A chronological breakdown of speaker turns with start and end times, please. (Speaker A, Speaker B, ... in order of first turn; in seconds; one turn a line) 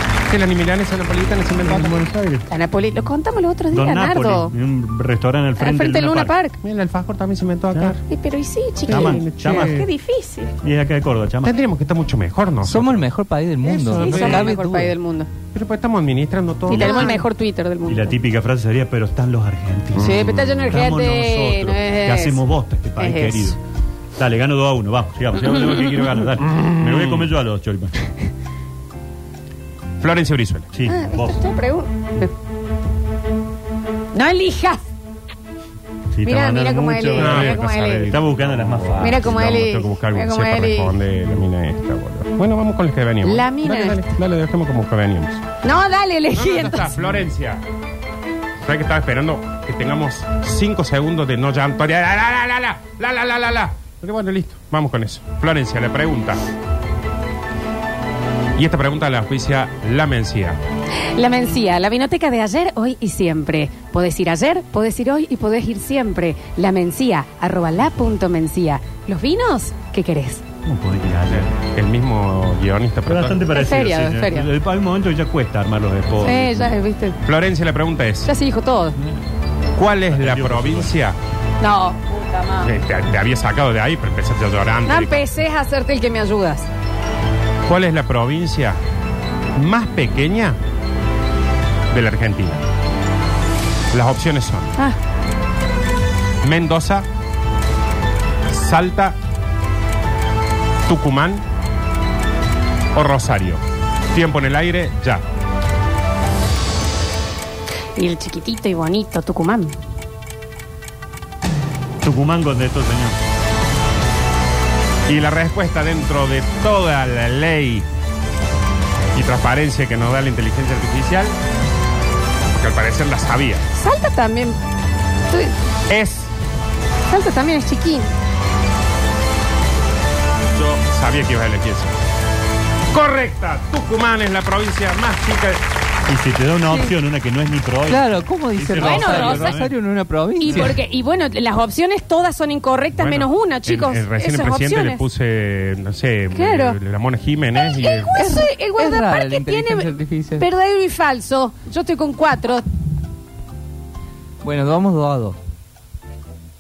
Speaker A: 0.3-2.0
Speaker B: 1.6-2.5
Speaker C: 2.5-4.5
Speaker B: 3.7-6.3
Speaker C: 5.6-6.6
Speaker A: 6.6-8.0
Speaker B: 7.7-8.0
Speaker C: 8.1-10.5
Speaker B: 8.9-9.9
Speaker A: 8.9-9.9
Speaker B: 10.6-11.6
Speaker A: 11.4-13.1
Speaker D: 12.6-14.9
Speaker A: 13.8-14.5
Speaker C: 13.8-15.3
Speaker A: 15.5-17.2
Speaker C: 16.7-18.2
Speaker B: 16.8-17.2
Speaker B: 17.9-23.6
Speaker A: 19.9-20.6
Speaker C: 20.0-22.4
Speaker C: 23.0-23.6
Speaker B: 24.2-27.9
Speaker A: 26.4-27.3
Speaker A: 30.0-30.7
Speaker B: 30.7-31.4
Speaker C: 30.9-32.3
Speaker C: 34.1-34.8
Speaker B: 36.2-39.3
Speaker C: 36.2-38.2
Speaker A: 37.1-45.5
Speaker C: 39.0-41.0
Speaker C: 43.2-44.2
Speaker C: 45.6-47.0
Speaker A: 46.3-47.6
Speaker A: 48.6-56.4
Speaker A: 58.6-60.6
Speaker C: 61.1-70.4
Speaker B: 70.7-71.6
Speaker A: 71.3-73.5
Speaker B: 73.1-76.7
Speaker C: 73.5-74.5
Speaker C: 76.2-77.2
Speaker A: 77.2-78.3
Speaker C: 78.3-79.0
Speaker A: 79.8-81.2
Speaker B: 80.1-80.9
Speaker C: 81.6-82.7
Speaker A: 82.6-85.2
Speaker C: 84.9-86.7
Speaker A: 87.7-88.8
Speaker A: 89.6-90.6
Speaker A: 91.9-92.6
Speaker A: 93.9-94.8
Speaker A: 96.4-97.1
Speaker A: 98.5-99.2
Speaker A: 100.9-101.5
Speaker A: 102.9-105.2
Speaker C: 108.0-109.8
Speaker B: 112.0-113.2
Speaker A: 115.1-117.9
Speaker A: 119.1-121.4
Speaker A: 122.5-123.7
Speaker C: 123.7-124.6
Speaker C: 125.3-125.6
Speaker A: 125.9-126.3
Speaker C: 127.1-128.1
Speaker A: 130.5-131.9
Speaker A: 132.9-135.6
Speaker B: 136.1-139.7
Speaker D: 137.9-140.8
Speaker C: 138.8-139.6
Speaker C: 140.4-145.0
Speaker A: 143.0-148.3
Speaker C: 146.3-146.8
Speaker C: 147.6-152.7
Speaker D: 148.1-150.5
Speaker D: 154.4-155.4